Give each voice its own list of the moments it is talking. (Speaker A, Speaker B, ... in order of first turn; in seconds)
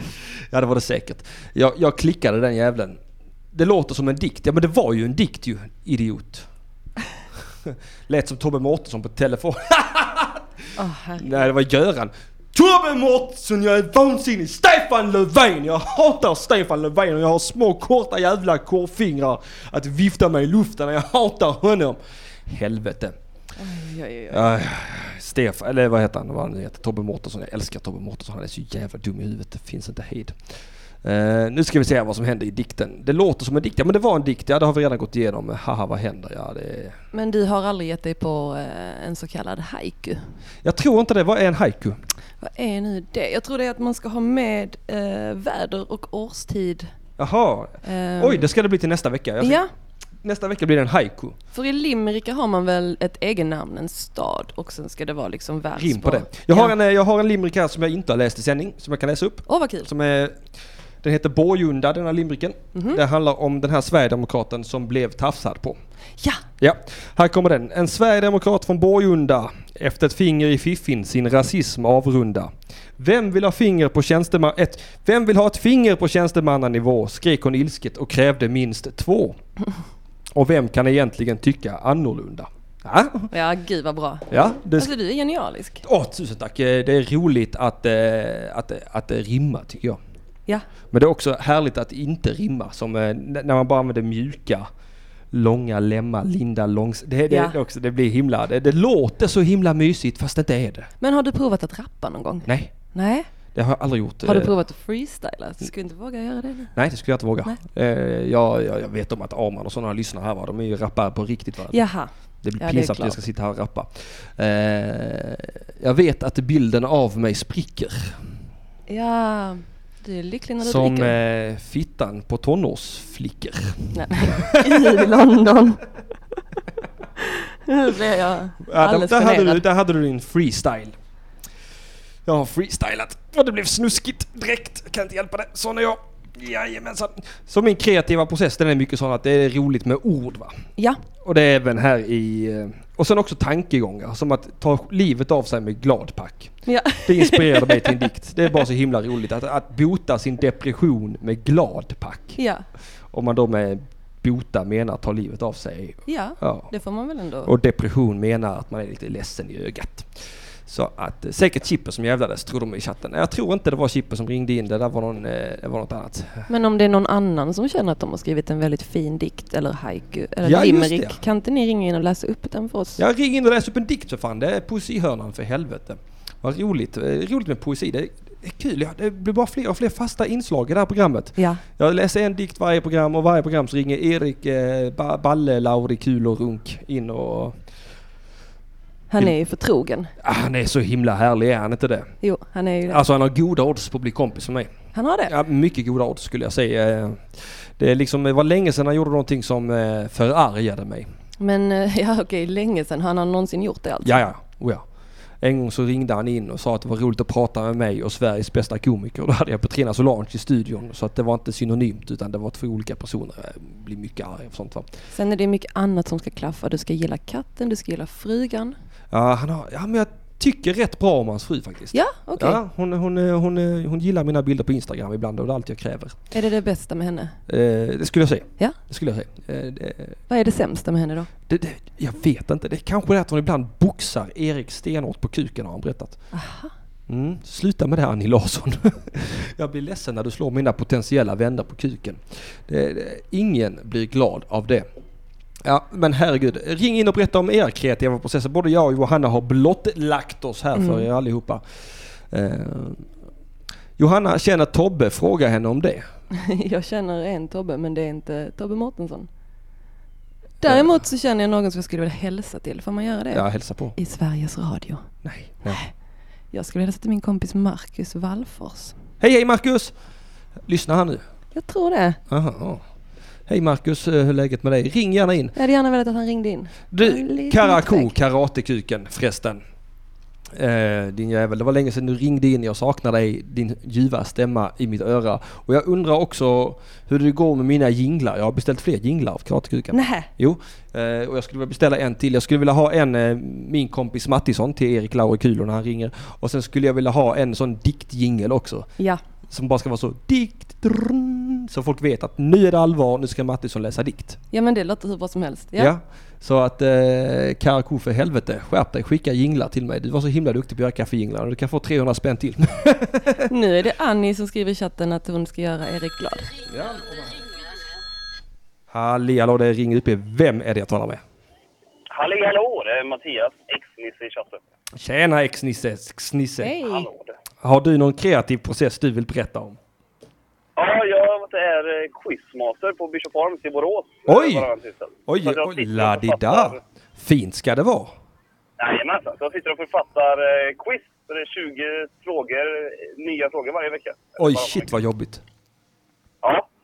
Speaker A: 0.5-3.0, 3.5-6.5, 7.7-10.4, 11.2-23.1, 24.3-30.3, 31.0-37.0, 40.6-42.0, 47.2-49.6, 50.2-51.4, 55.7-60.4, 61.0-65.8, 66.6-79.4, 80.3-83.3, 84.3-84.9, 85.8-90.0, 90.9-94.7, 95.3-100.9, 102.5-102.7, 103.5-104.5, 106.7-111.8, 112.4-118.1, 120.6-125.1, 128.7-130.9, 132.2-140.6, 141.2-152.4, 153.1-156.7, 157.4-160.1, 160.7-166.5, 170.4-171.2, 173.0-187.6, 190.2-192.1, 192.9-194.7, 195.3-201.1, 204.0-204.8, 205.4-214.9, 219.1-226.2, 227.5-230.2, 231.5-236.2, 237.1-244.9, 245.6-251.6, 252.3-253.1, 254.0-256.0, 260.6-260.9, 263.3-263.9, 265.2-265.8, 269.2-269.9, 270.7-271.2, 272.3-272.8, 273.5-275.5, 276.9-279.6, 280.5-298.9, 299.5-304.4, 305.8-313.5, 316.7-317.4, 318.9-321.2, 325.0-326.8, 327.6-329.8, 334.3-334.7, 335.3-338.1, 344.4-345.4
Speaker B: 10.8-11.5, 23.6-24.5, 37.1-40.2, 42.4-46.9, 47.8-48.5, 49.4-49.7, 51.5-56.7, 59.5-59.9, 62.7-63.0, 83.3-85.8, 97.3-97.6, 101.0-103.3, 104.2-106.8, 111.7-113.2, 118.9-121.2, 123.9-125.8, 127.2-129.6, 146.7-148.0, 152.3-152.6, 156.1-157.5, 166.5-173.0, 181.4-181.6, 189.1-190.1, 192.2-193.0, 194.9-195.3, 201.4-204.2, 215.1-218.8, 221.9-222.6, 226.3-227.4, 230.3-231.3, 236.3-236.7, 250.8-251.1, 256.3-259.3, 260.6-265.1, 265.6-265.9, 266.5-268.9, 271.5-272.2, 275.5-278.1, 289.9-290.3, 304.5-305.9, 313.4-316.5, 326.6-327.1
Speaker C: 322.1-324.6, 326.8-327.3, 330.8-336.8, 338.8-344.9, 346.4-346.7